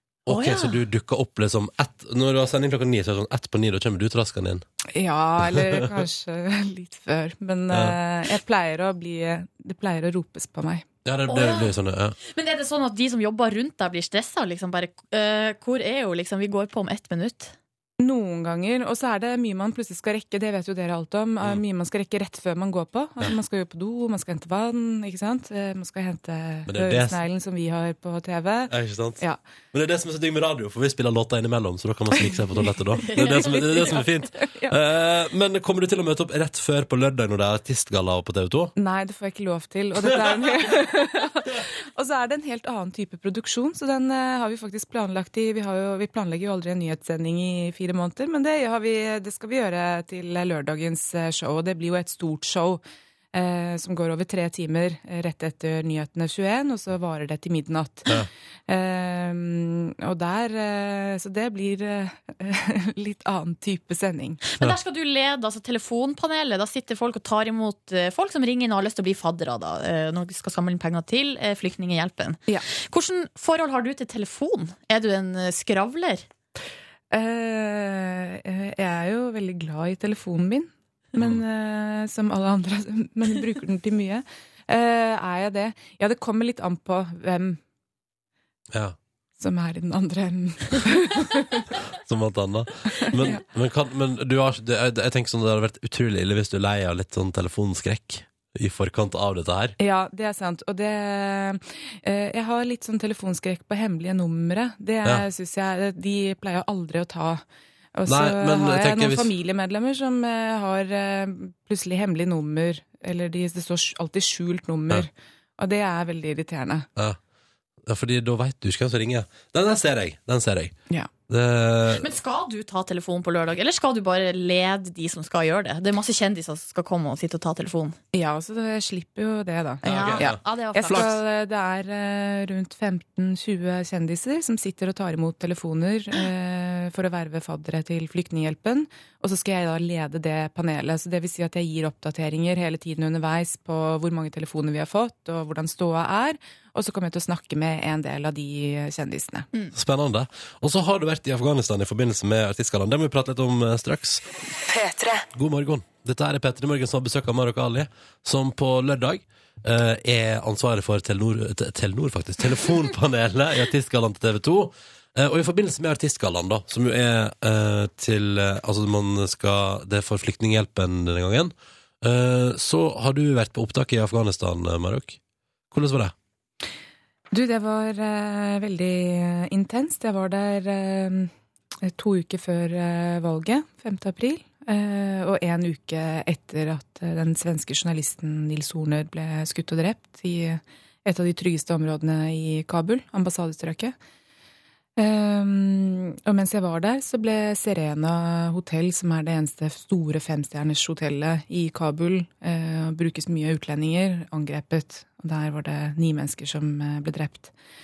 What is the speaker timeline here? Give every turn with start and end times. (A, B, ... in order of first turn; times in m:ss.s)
0:00.2-0:04.6 A
0:00.3-0:00.7 B
0:04.9-0:10.9 B
0:05.5-0:05.8 A
0:07.7-0:08.0 A
0:11.0-0:12.2 A
0:11.3-0:11.7 C
0:12.3-0:17.5 C
0:18.0-0:29.4 B
0:26.7-0:27.2 A
0:28.7-0:29.2 A
0:29.7-0:38.7 A
0:33.0-0:34.0 C
0:33.2-0:34.7 B
0:38.8-0:52.8 B
0:53.3-1:04.4 B
1:04.5-1:16.2 C
1:17.1-1:27.6 B
1:21.2-1:21.4 A
1:29.4-1:31.6 B
1:32.0-1:39.8 A
1:33.1-1:33.4 B
1:39.8-1:47.4 B
1:47.9-1:56.9 B
1:48.1-1:49.3 A
1:57.8-2:00.7 A
2:01.3-2:02.0 A
2:02.0-2:08.0 C
2:08.1-2:29.5 B
2:09.8-2:11.2 C
2:09.8-2:11.1 A
2:29.7-2:34.2 A
2:35.3-2:55.2 A
2:55.7-2:56.1 A
2:57.3-3:01.3 B
3:01.8-3:13.9 B
3:15.0-3:27.5 B